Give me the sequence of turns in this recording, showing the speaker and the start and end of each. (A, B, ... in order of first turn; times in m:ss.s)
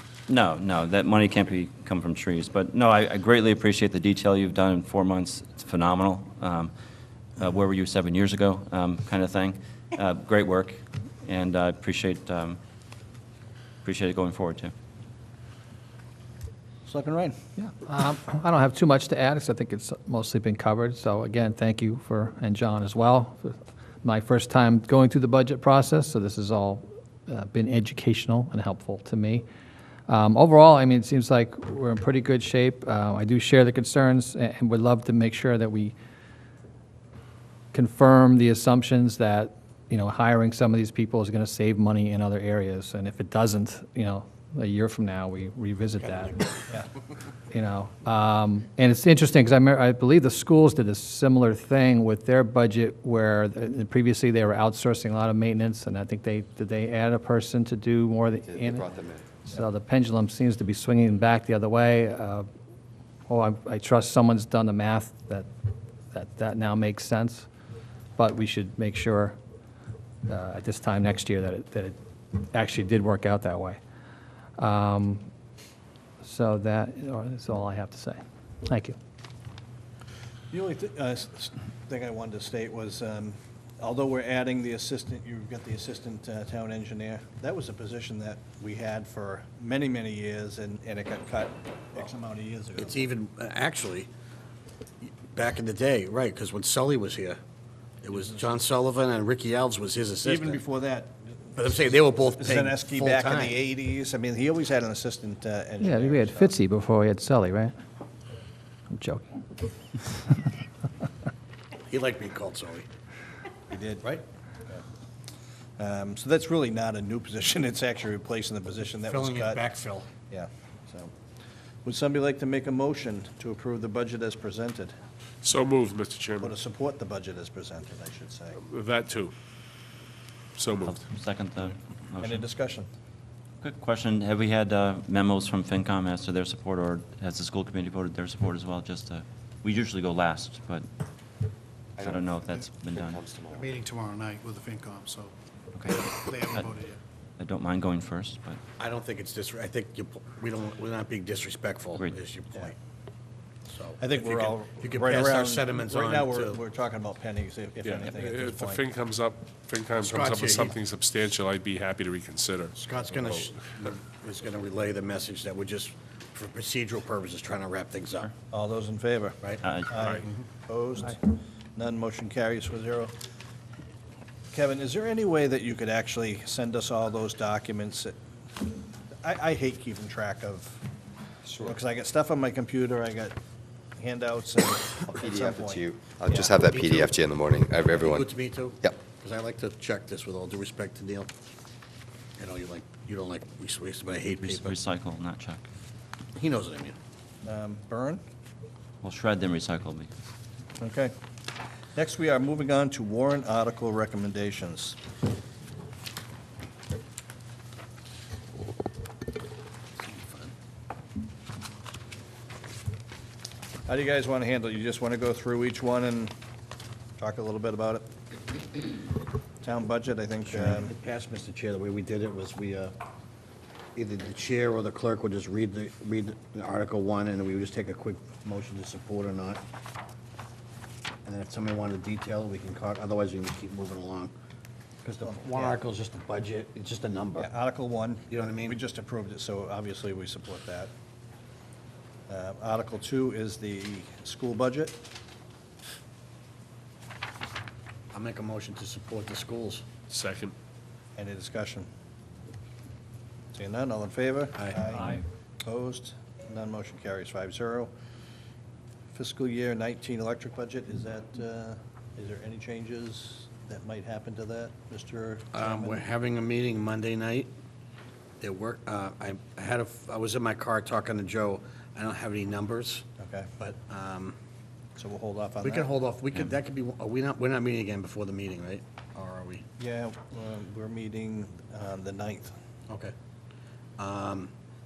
0:00.3-0:06.7 A
0:07.4-0:12.6 A
0:13.8-0:14.7 A
0:16.8-0:17.4 B
0:17.6-0:29.4 C
0:30.1-0:35.9 C
0:37.7-0:46.4 C
0:46.0-0:46.7 D
0:47.5-0:58.8 C
0:58.4-0:59.3 E
0:59.4-1:02.5 C
1:03.3-1:05.5 C
1:06.1-1:07.5 C
1:08.2-1:09.4 C
1:10.3-1:13.8 C
1:14.6-1:15.3 C
1:16.2-1:19.0 C
1:20.5-1:33.0 B
1:32.8-1:34.1 D
1:35.0-1:37.4 D
1:38.0-1:40.6 D
1:40.2-1:46.5 B
1:41.6-1:43.6 D
1:45.8-1:47.7 C
1:48.9-1:49.4 C
1:51.9-1:52.9 D
1:53.7-1:54.1 B
1:55.8-1:59.6 B
1:59.0-2:00.1 D
2:00.3-2:01.1 B
2:01.8-2:04.9 B
2:05.4-2:06.6 F
2:06.4-2:08.6 B
2:08.6-2:09.3 F
2:10.6-2:11.0 F
2:10.8-2:12.4 A
2:12.2-2:12.9 B
2:13.6-2:20.8 A
2:22.0-2:23.7 E
2:22.0-2:23.2 A
2:23.6-2:25.3 G
2:25.7-2:26.7 A
2:26.2-2:26.9 G
2:27.4-2:28.6 A
2:28.8-2:32.7 D
2:33.7-2:36.6 D
2:34.0-2:38.8 B
2:37.8-2:43.5 F
2:40.0-2:40.8 D
2:42.8-2:48.3 D
2:48.5-2:53.1 B
2:49.4-2:50.3 D
2:49.6-2:50.0 A
2:50.0-2:50.2 F
2:54.5-2:58.2 B
2:59.2-3:00.8 B
3:01.4-3:01.8 E
3:01.6-3:03.4 B
3:04.0-3:06.5 B
3:05.1-3:09.0 E
3:06.6-3:07.2 D
3:08.0-3:11.3 D
3:12.4-3:14.8 D
3:14.4-3:15.6 A
3:16.4-3:16.9 D
3:17.4-3:18.2 B
3:19.0-3:20.1 A
3:20.8-3:21.1 B
3:21.9-3:25.0 B
3:30.0-3:30.5 D
3:33.8-3:36.3 B
3:37.2-3:38.1 B
3:39.6-3:40.9 B
3:40.4-3:42.9 D
3:44.0-3:49.6 D
3:51.2-3:54.3 D
3:55.0-3:57.5 D
3:55.2-3:55.8 B
3:57.4-4:00.9 B
3:58.3-3:58.8 D
4:02.3-4:05.0 B
4:08.1-4:09.8 D
4:10.1-4:10.5 F
4:11.2-4:11.9 B
4:13.5-4:17.9 B
4:14.6-4:14.8 D
4:19.1-4:26.0 B
4:25.5-4:27.5 D
4:28.4-4:33.1 D
4:33.2-4:33.5 B
4:33.6-4:34.4 D
4:35.0-4:35.9 B
4:35.6-4:39.6 D
4:39.8-4:42.5 B
4:42.9-4:43.1 D
4:44.0-4:44.5 D